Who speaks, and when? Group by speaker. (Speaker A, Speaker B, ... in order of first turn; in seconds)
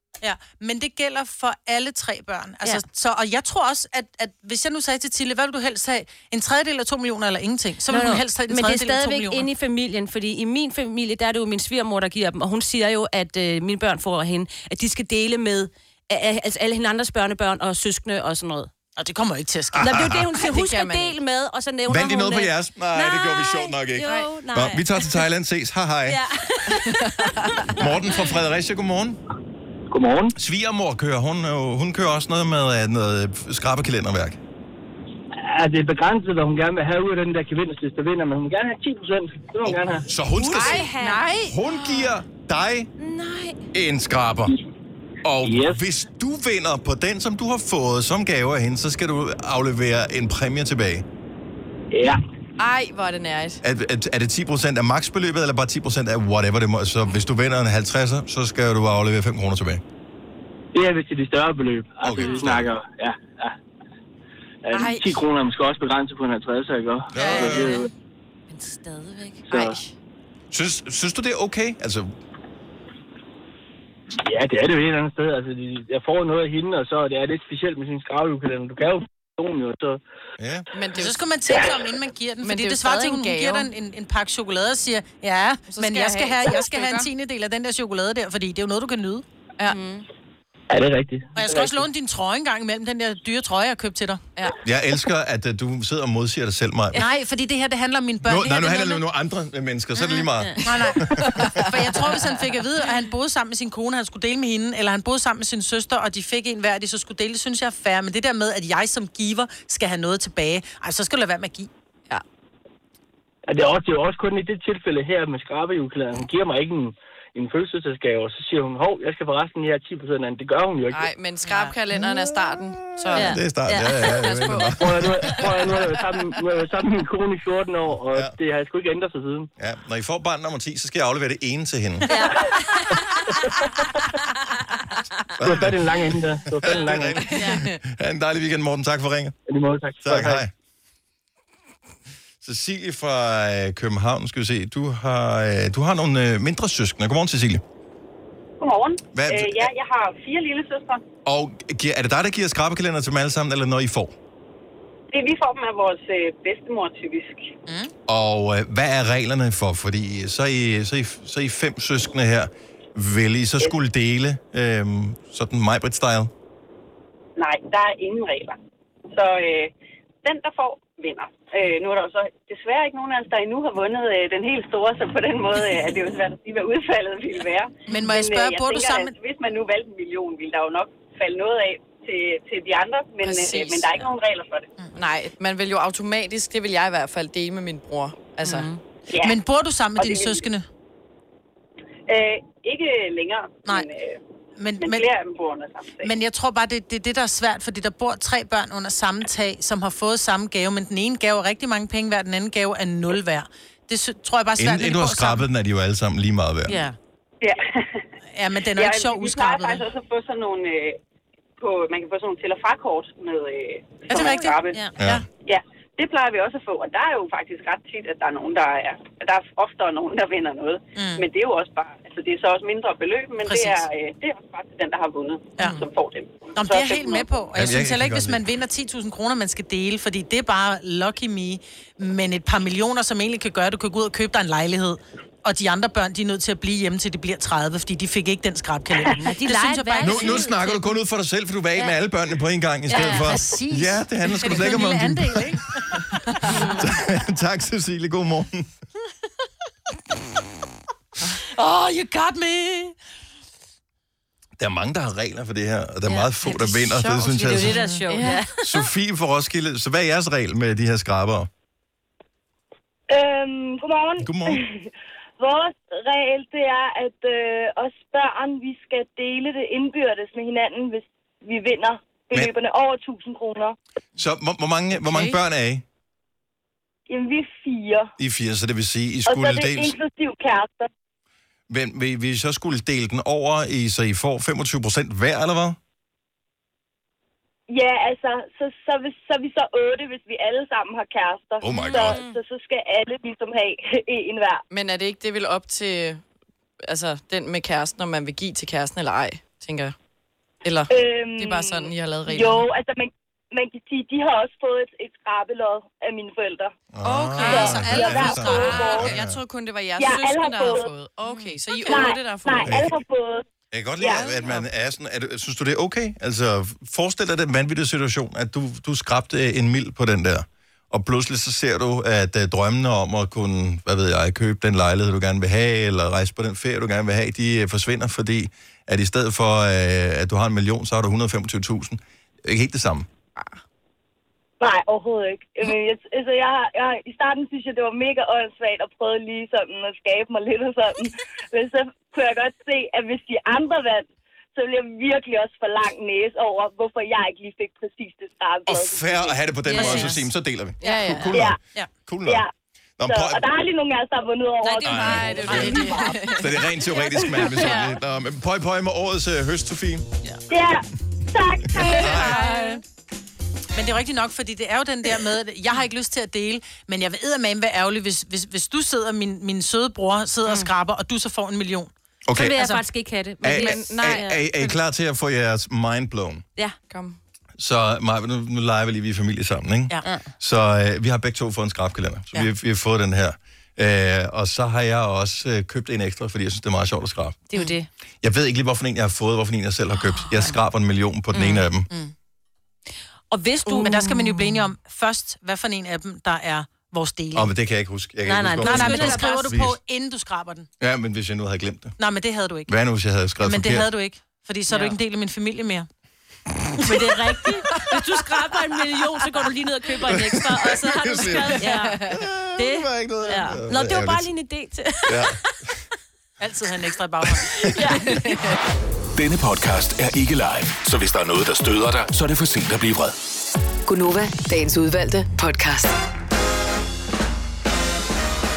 Speaker A: 0.2-9.5, 19.0-19.9, 40.5-41.5, 80.9-89.2, 91.3-94.2, 96.9-99.0, 100.0-111.7, 157.7-157.9, 177.9-179.1, 189.2-190.7, 194.6-195.1, 196.0-205.4, 208.3-209.8, 214.1-215.2, 220.9-221.2, 223.4-223.8, 225.6-225.8, 226.5-240.5, 242.9-246.5, 251.5-252.9, 257.6-258.1, 307.1-308.9, 349.8-350.1, 355.5-356.0, 361.9-362.8, 363.7-371.9, 372.5-372.8, 393.7-397.5, 398.6-400.7, 402.0-402.7, 403.4-405.9, 416.4-417.6
Speaker B: 7.9-18.7, 19.8-25.2, 26.1-27.6, 40.3-42.1, 43.0-43.6, 62.2-62.4, 67.2-67.8, 68.5-69.8, 89.7-90.0, 100.2-100.6, 123.1-124.6, 132.1-133.4, 136.7-137.7, 188.4-188.8, 206.7-207.0, 214.1-214.9, 239.2-240.9, 242.9-243.4, 246.5-246.9, 256.0-258.9, 291.7-292.4, 349.6-350.3, 354.6-355.9, 357.5-357.8, 362.1-362.8, 372.3-374.8, 380.0-380.3, 387.5-387.9, 391.3-391.6, 393.3-394.6, 398.2-399.5, 406.8-415.4, 417.6-418.2
Speaker C: 19.7-20.3, 21.9-26.2, 27.8-29.2, 30.3-34.4, 39.6-40.9, 41.4-42.9, 43.7-44.5, 45.2-51.0, 53.6-59.8, 62.0-62.7, 67.1-67.8, 70.5-72.1, 80.4-80.7, 94.6-97.0, 98.2-101.7, 122.0-125.6, 129.6-132.2, 135.4-139.3, 140.0-140.5, 142.4-147.6, 149.1-149.7, 151.2-154.1, 158.1-166.3, 204.6-206.8, 215.0-215.2, 227.5-228.4, 240.0-245.6, 246.8-248.7, 254.6-257.8, 258.6-261.5, 264.2-264.6, 274.1-275.8, 278.2-280.0, 281.7-285.8, 291.6-292.2, 306.9-309.4, 312.6-312.9, 313.7-333.1, 348.6-352.4, 353.0-353.4, 354.8-355.8, 356.3-360.1, 361.6-362.4, 372.3-372.6, 373.4-376.4, 377.6-387.4, 388.2-391.9, 397.3-399.8, 400.8-401.9, 402.7-403.9, 410.0-414.3, 415.1-415.4, 417.4-417.7
Speaker D: 20.4-21.2, 52.6-53.6, 64.7-65.2, 69.5-69.9, 80.7-81.2, 82.4-83.7, 85.7-87.1, 120.9-123.4, 124.0-125.9, 137.2-137.7, 183.2-183.9, 184.9-188.7, 257.4-258.4, 275.1-275.3, 294.7-296.2, 296.8-299.9, 300.6-302.7, 307.1-312.8, 314.2-314.6, 333.4-333.6, 350.8-351.4, 354.9-356.6, 357.5-357.9, 373.5-374.3, 376.9-377.2, 411.6-412.2, 418.1-418.6
Speaker E: 29.9-30.3, 35.4-40.0, 45.4-45.8, 51.9-52.2, 60.7-63.5, 64.6-67.9, 69.5-69.8, 74.2-80.0, 90.7-91.8, 113.5-121.1, 124.8-129.5, 135.4-137.3, 139.5-140.4
Speaker F: 148.6-151.0, 155.1-157.5, 167.4-168.6, 169.1-169.7, 170.2-184.7, 189.1-189.4, 190.0-190.4, 192.1-194.2, 194.8-196.1, 207.4-208.0, 208.7-211.0, 211.6-214.8, 215.4-227.4
Speaker G: 263.1-264.9, 265.4-273.8, 277.1-278.1, 279.2-280.9, 287.7-294.6, 300.9-306.7, 307.4-309.1, 310.0-310.9, 311.8-313.4, 314.0-314.3, 334.6-349.4, 351.3-351.6, 352.2-352.5, 353.1-356.2, 360.5-362.4
Speaker H: 419.1-423.1
Speaker I: 423.9-425.9